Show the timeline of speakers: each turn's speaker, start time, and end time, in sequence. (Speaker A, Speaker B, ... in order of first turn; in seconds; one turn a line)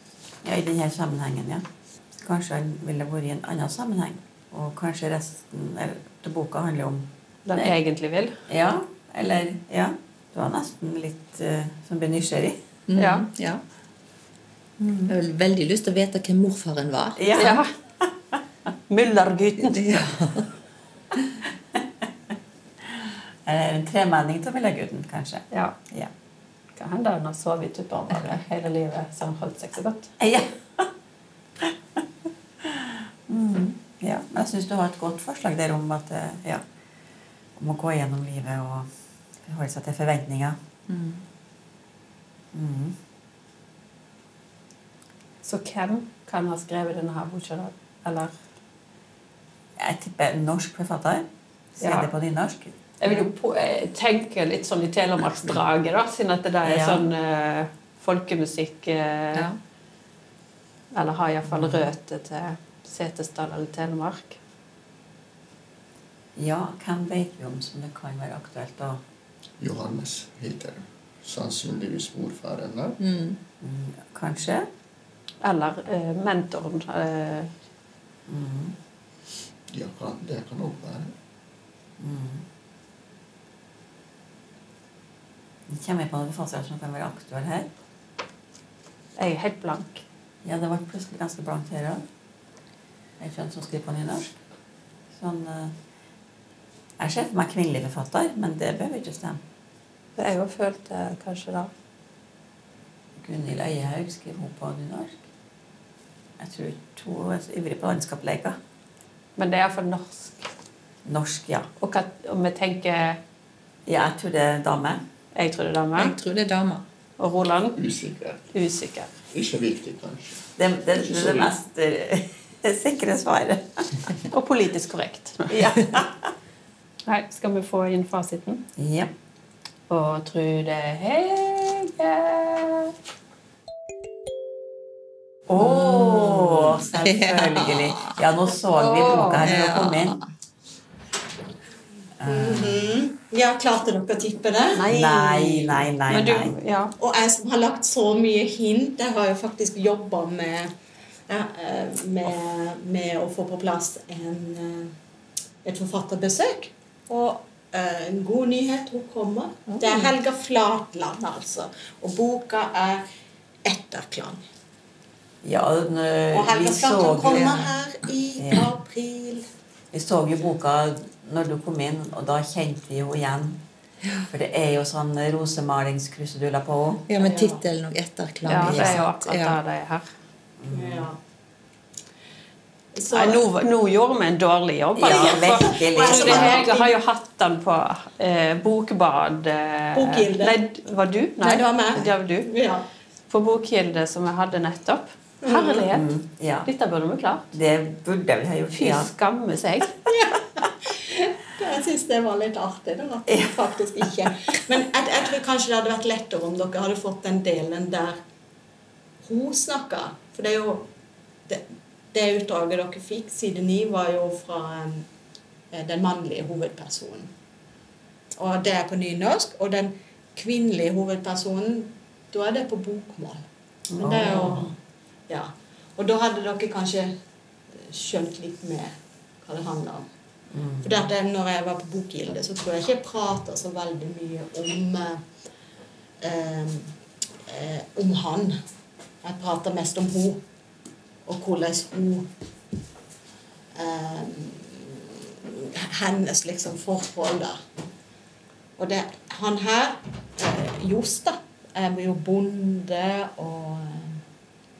Speaker A: 0.4-1.6
Speaker A: 2.2-7.8
Speaker B: 7.5-8.3
Speaker A: 8.5-12.6
Speaker C: 12.9-13.6
Speaker B: 13.0-13.3
Speaker C: 14.8-17.2
Speaker A: 17.2-18.1
Speaker B: 17.4-17.7
Speaker B: 18.9-20.1
Speaker C: 19.6-20.5
Speaker A: 23.5-26.1
Speaker B: 26.8-30.1
Speaker A: 30.2-30.9
Speaker A: 31.6-32.0
Speaker A: 32.6-36.6
Speaker A: 37.6-38.9
Speaker A: 39.4-40.6
Speaker C: 40.9-41.2
Speaker A: 42.5-43.0
Speaker B: 45.4-48.4
Speaker A: 49.8-53.3
Speaker B: 51.8-52.1
Speaker B: 53.0-59.5
Speaker A: 56.6-57.0
Speaker B: 60.9-64.4
Speaker A: 61.5-61.9
Speaker A: 66.4-69.0
Speaker D: 69.6-73.0
Speaker C: 73.0-73.4
Speaker A: 73.6-74.7
Speaker B: 75.4-77.5
Speaker A: 78.3-78.8
Speaker D: 79.7-81.1
Speaker A: 82.0-82.4
Speaker A: 85.7-87.7
Speaker B: 89.2-90.0
Speaker A: 90.5-92.0
Speaker A: 93.2-94.3
Speaker A: 95.1-95.7
Speaker A: 97.0-99.4
Speaker B: 100.2-101.7
Speaker A: 103.2-105.2
Speaker A: 106.4-108.6
Speaker B: 109.4-110.4
Speaker A: 111.1-111.7
Speaker B: 111.8-113.2
Speaker A: 113.9-115.0
Speaker B: 115.3-116.2
Speaker C: 116.0-116.8
Speaker B: 117.2-117.8
Speaker D: 117.8-118.4
Speaker B: 118.5-119.1
Speaker D: 119.3-121.5
Speaker A: 120.6-124.1
Speaker B: 124.3-125.7
Speaker A: 125.5-126.3
Speaker B: 127.1-128.6
Speaker A: 128.8-129.1
Speaker B: 129.9-132.9
Speaker A: 135.5-140.2
Speaker C: 135.6-138.1
Speaker B: 138.8-139.4
Speaker C: 139.4-140.2
Speaker A: 142.2-142.8
Speaker E: 142.3-144.9
Speaker B: 144.8-146.9
Speaker A: 144.9-146.5
Speaker E: 147.0-150.7
Speaker E: 151.3-154.9
Speaker E: 155.7-163.0
Speaker C: 159.7-160.1
Speaker E: 163.7-164.4
Speaker A: 165.4-167.7
Speaker E: 166.3-169.4
Speaker A: 168.4-168.7
Speaker A: 169.9-173.6
Speaker A: 174.3-177.1
Speaker C: 177.1-179.6
Speaker E: 177.2-177.6
Speaker B: 178.5-180.1
Speaker A: 180.6-181.1
Speaker E: 180.7-181.2
Speaker E: 182.9-183.5
Speaker B: 183.1-192.5
Speaker A: 184.9-186.7
Speaker E: 185.1-186.9
Speaker E: 189.9-190.6
Speaker E: 191.4-192.8
Speaker B: 193.3-196.1
Speaker E: 195.4-195.9
Speaker A: 195.9-196.7
Speaker B: 196.7-197.5
Speaker A: 197.5-199.1
Speaker B: 198.7-199.9
Speaker E: 200.1-208.2
Speaker A: 203.3-203.7
Speaker E: 209.2-210.8
Speaker E: 211.5-215.1
Speaker E: 215.7-217.3
Speaker E: 218.4-223.4
Speaker A: 223.9-224.7
Speaker E: 224.0-224.8
Speaker E: 225.3-227.1
Speaker E: 227.8-228.9
Speaker E: 229.4-230.1
Speaker A: 230.5-231.1
Speaker E: 230.8-235.2
Speaker E: 236.2-236.9
Speaker E: 237.5-238.6
Speaker E: 239.2-240.4
Speaker E: 241.3-242.2
Speaker E: 243.8-247.6
Speaker E: 248.8-254.2